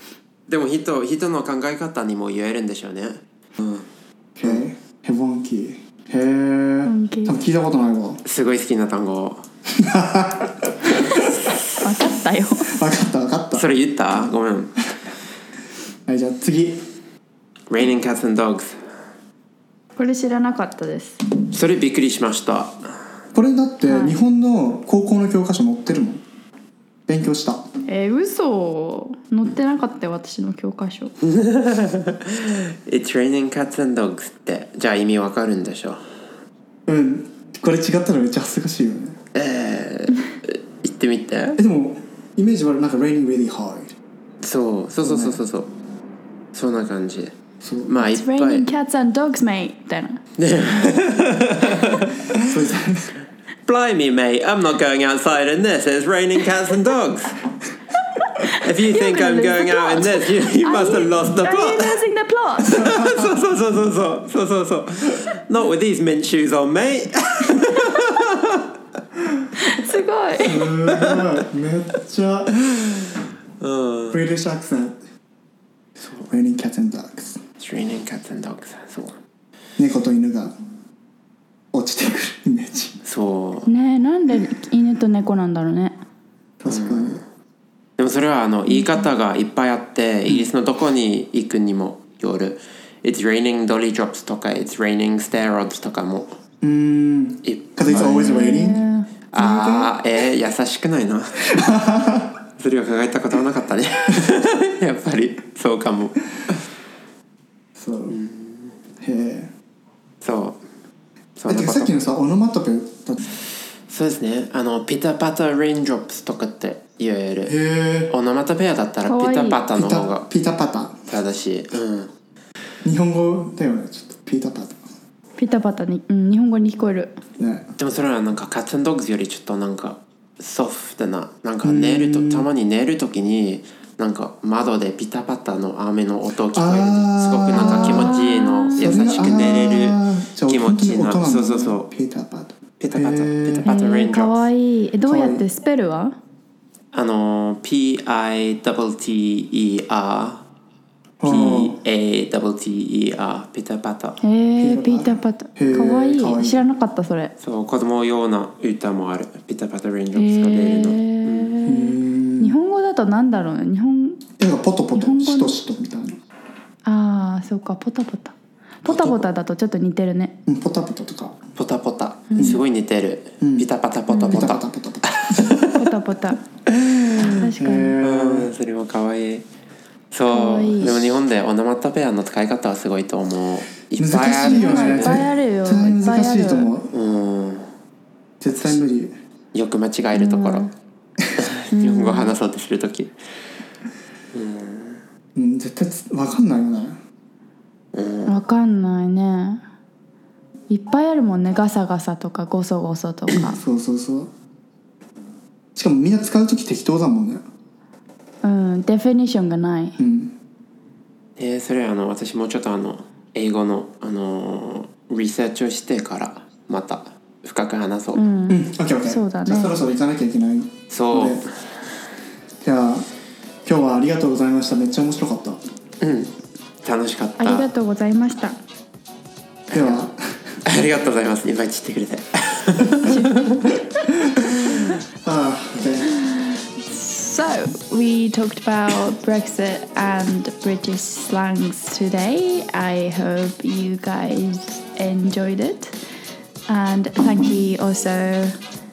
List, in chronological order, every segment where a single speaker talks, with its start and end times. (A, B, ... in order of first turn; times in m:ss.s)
0:00.5-0:03.8 A
0:04.4-0:08.2 B
0:06.8-0:07.4 C
0:08.2-0:09.4 A
0:09.7-0:11.3 B
0:10.9-0:11.6 A
0:11.8-0:12.8 C
0:12.6-0:13.6 B
0:13.5-0:14.8 A
0:16.0-0:16.9 B
0:17.7-0:18.8 A
0:20.0-0:21.2 C
0:21.5-0:22.8 A
0:23.3-0:26.2 B
0:23.8-0:24.2 C
0:27.1-0:27.6 B
0:27.9-0:31.1 C
0:31.2-0:36.0 A
0:36.8-0:39.2 B
0:39.3-0:41.6 A
0:41.6-0:44.0 B
0:44.4-0:45.7 A
0:45.0-0:45.4 B
0:46.5-0:47.3 A
0:47.6-0:47.9 B
0:47.8-0:48.6 A
0:48.0-0:50.2 C
0:50.4-0:52.6 A
0:52.4-0:53.1 B
0:53.6-0:57.4 A
0:58.2-1:02.9 C
0:58.4-1:02.0 A
1:02.6-1:08.6 A
1:02.7-1:03.4 B
1:09.6-1:10.7 C
1:10.4-1:12.6 B
1:10.9-1:11.3 A
1:12.6-1:13.1 A
1:13.6-1:14.2 A
1:14.1-1:15.0 B
1:16.0-1:16.3 A
1:16.3-1:17.4 B
1:17.6-1:19.2 A
1:19.8-1:20.5 B
1:21.7-1:23.0 B
1:23.0-1:23.7 A
1:23.7-1:25.9 C
1:26.6-1:27.2 B
1:26.7-1:27.2 A
1:28.0-1:36.3 A
1:36.6-1:38.8 B
1:37.4-1:38.6 A
1:37.9-1:39.1 C
1:39.3-1:41.6 A
1:39.3-1:39.9 B
1:41.4-1:42.4 B
1:42.6-1:46.6 A
1:47.8-1:48.2 B
1:48.1-1:48.7 A
1:49.0-1:49.5 B
1:50.2-1:50.6 A
1:51.4-1:51.9 A
1:51.5-1:53.2 B
1:53.9-1:57.6 A
1:57.4-1:58.1 B
1:58.1-2:00.3 A
1:59.1-1:59.6 C
1:59.7-2:01.0 B
2:01.1-2:02.1 A
2:02.8-2:04.8 B
2:05.4-2:07.2 C
2:07.4-2:07.7 B
2:07.8-2:21.8 A
2:11.6-2:12.5 B
2:16.5-2:23.7 B
2:17.8-2:19.2 C
2:22.8-2:24.5 A
2:23.6-2:26.1 C
2:25.0-2:25.4 B
2:26.9-2:30.4 A
2:31.2-2:31.8 B
2:31.2-2:34.2 A
2:31.3-2:31.6 C
2:34.2-2:37.3 C
2:34.6-2:36.6 B
2:37.4-2:41.6 A
2:40.1-2:44.2 C
2:41.6-2:42.6 B
2:44.4-2:46.2 B
2:44.9-2:45.6 C
2:46.8-2:50.3 C
2:48.9-2:49.2 A
2:50.4-2:51.4 B
2:51.6-2:55.8 A
2:52.3-2:52.6 C
2:52.4-2:52.6 B
2:53.4-2:53.7 B
2:54.1-2:54.4 C
2:54.3-2:55.6 B
2:55.7-2:56.4 C
2:56.7-2:57.4 A
2:57.1-2:57.9 C
2:57.4-2:58.5 B
2:58.0-2:59.4 A
3:00.1-3:05.3 A
3:00.3-3:01.1 C
3:04.0-3:06.9 B
3:04.3-3:06.7 C
3:06.9-3:07.7 A
3:08.4-3:09.1 B
3:09.5-3:10.7 A
3:10.1-3:10.7 C
3:11.4-3:13.1 A
3:11.7-3:12.3 C
3:14.3-3:15.0 A
3:15.3-3:17.0 B
3:17.9-3:18.3 A
3:18.2-3:19.6 C
3:20.7-3:23.6 C
3:23.4-3:24.3 B
3:25.7-3:27.4 B
3:28.4-3:30.0 C
3:30.0-3:30.3 B
3:31.4-3:38.2 A
3:38.1-3:39.7 C
3:38.5-3:41.4 B
3:40.9-3:41.5 A
3:42.6-3:43.0 B
3:43.6-3:45.6 B
3:46.0-3:46.3 A
3:46.8-3:47.7 A
3:47.4-3:48.6 C
3:49.7-3:50.0 A
3:49.7-3:50.6 B
3:50.6-3:53.8 A
3:53.1-3:53.5 C
3:54.4-3:55.0 A
3:55.2-3:56.1 B
3:56.3-4:05.9 C
4:06.7-4:08.6 C